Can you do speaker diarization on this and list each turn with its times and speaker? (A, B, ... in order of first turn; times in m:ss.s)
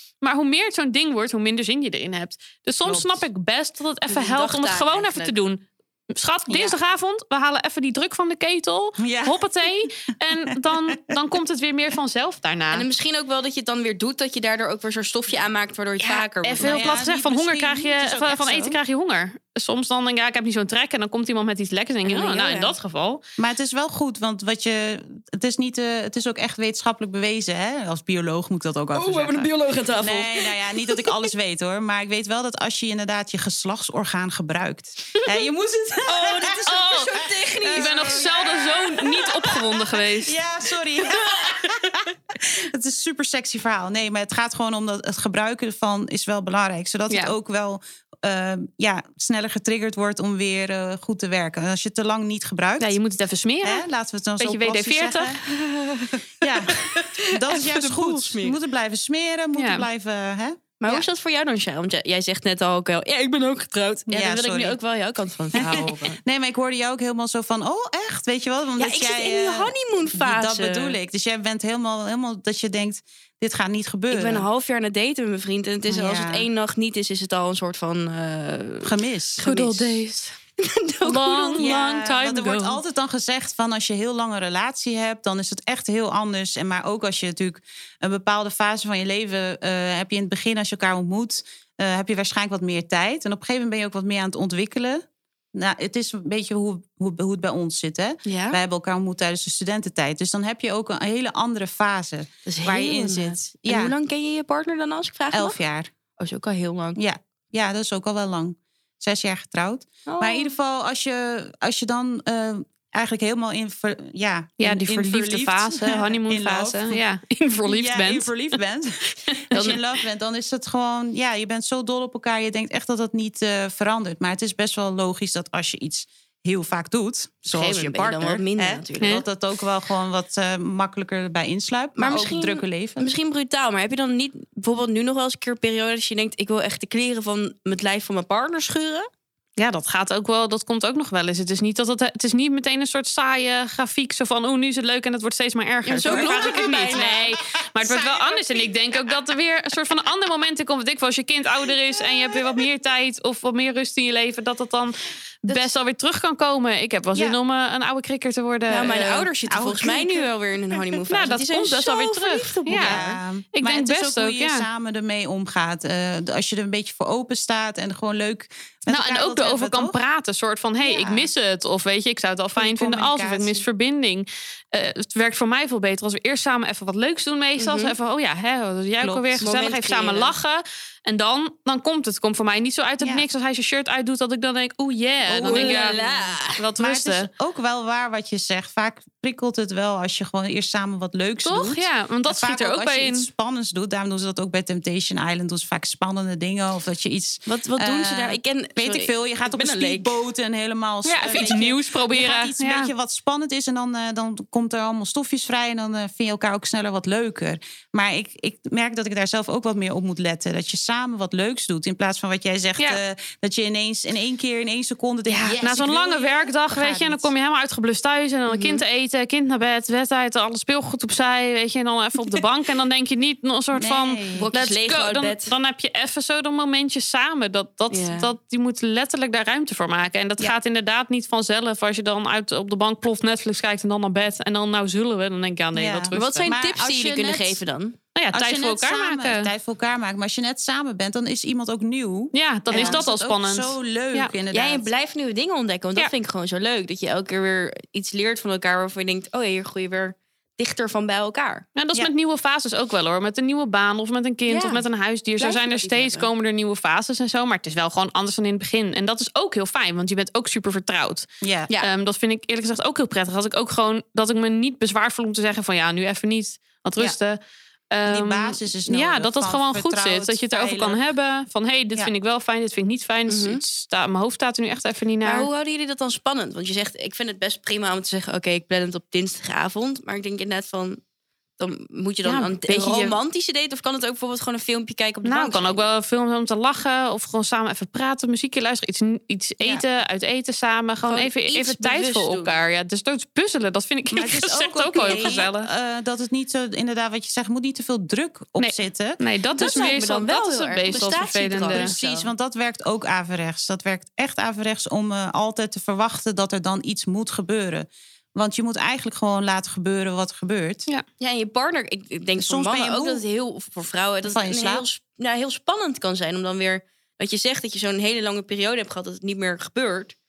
0:00.2-0:12.9 A
0:02.8-0:03.2 B
0:04.1-0:05.3 C
0:06.5-0:06.7 C
0:09.0-0:09.9 B
0:10.4-0:11.1 B
0:12.7-0:17.0 C
0:16.0-0:23.2 A
0:16.6-0:18.8 B
0:22.0-0:22.7 C
0:23.4-0:53.0 B
0:28.9-0:31.2 C
0:36.0-0:38.8 C
0:36.6-0:40.4 A
0:41.4-0:41.7 C
0:52.8-0:53.9 A
0:53.6-0:55.4 B
0:54.4-0:55.4 A
0:55.4-0:58.6 C
0:56.4-1:01.0 B
0:59.5-0:59.8 A
1:00.8-1:06.2 C
1:04.1-1:04.8 B
1:05.5-1:14.4 B
1:08.8-1:11.0 C
1:14.1-1:21.7 C
1:15.9-1:16.5 B
1:18.8-1:19.4 B
1:19.4-1:20.0 A
1:21.0-1:22.8 A
1:21.6-1:43.9 B
1:38.2-1:38.6 C
1:42.4-1:45.6 C
1:45.3-1:45.9 B
1:46.2-1:47.0 C
1:47.0-1:57.0 B
1:50.0-1:50.5 C
1:54.6-1:58.3 A
1:57.7-2:13.1 B
1:59.5-1:59.8 A
2:07.5-2:09.2 C
2:12.0-2:19.1 C
2:19.6-2:39.3 A
2:25.8-2:27.3 C
2:26.0-2:29.4 B
2:32.0-2:32.6 B
2:38.7-2:43.2 C
2:39.5-2:40.8 B
2:41.1-2:43.0 A
2:42.7-2:50.0 B
2:43.6-2:44.6 A
2:48.9-3:07.3 A
2:50.8-2:51.3 B
2:52.6-2:53.6 B
2:57.6-2:58.0 C
2:59.0-2:59.4 B
2:59.4-3:00.3 C
3:03.0-3:03.2 B
3:05.2-3:05.9 B
3:05.4-3:06.6 C
3:06.8-3:37.3 B
3:11.4-3:13.3 A
3:17.4-3:20.2 C
3:21.0-3:22.9 A
3:35.3-3:35.6 C
3:35.6-3:56.5 A
3:38.5-3:38.8 C
3:43.7-3:44.5 B
3:44.3-3:45.5 C
3:47.9-3:48.3 C
3:55.7-3:57.6 B
3:56.1-3:58.0 C
3:58.2-3:59.5 A
3:58.3-4:04.9 B
4:02.3-4:04.3 A
4:02.7-4:03.0 C
4:04.5-4:11.6 C
4:11.8-4:21.3 A
4:14.5-4:14.8 C
4:15.4-4:16.3 C
4:21.4-4:21.7 B
4:21.8-4:27.4 A
4:27.9-4:35.5 A
4:28.0-4:31.0 B
4:33.3-4:33.6 C
4:35.2-4:41.0 C
4:41.6-4:45.8 C
4:42.2-4:43.2 A
4:45.2-4:55.7 A
4:49.6-4:49.8 B
4:51.0-4:52.6 C
4:54.1-4:59.2 B
4:55.0-4:55.5 C
4:58.6-5:01.9 A
4:59.5-5:02.3 C
5:01.7-5:10.8 B
5:11.2-5:20.1 C
5:12.4-5:13.2 B
5:14.3-5:14.8 B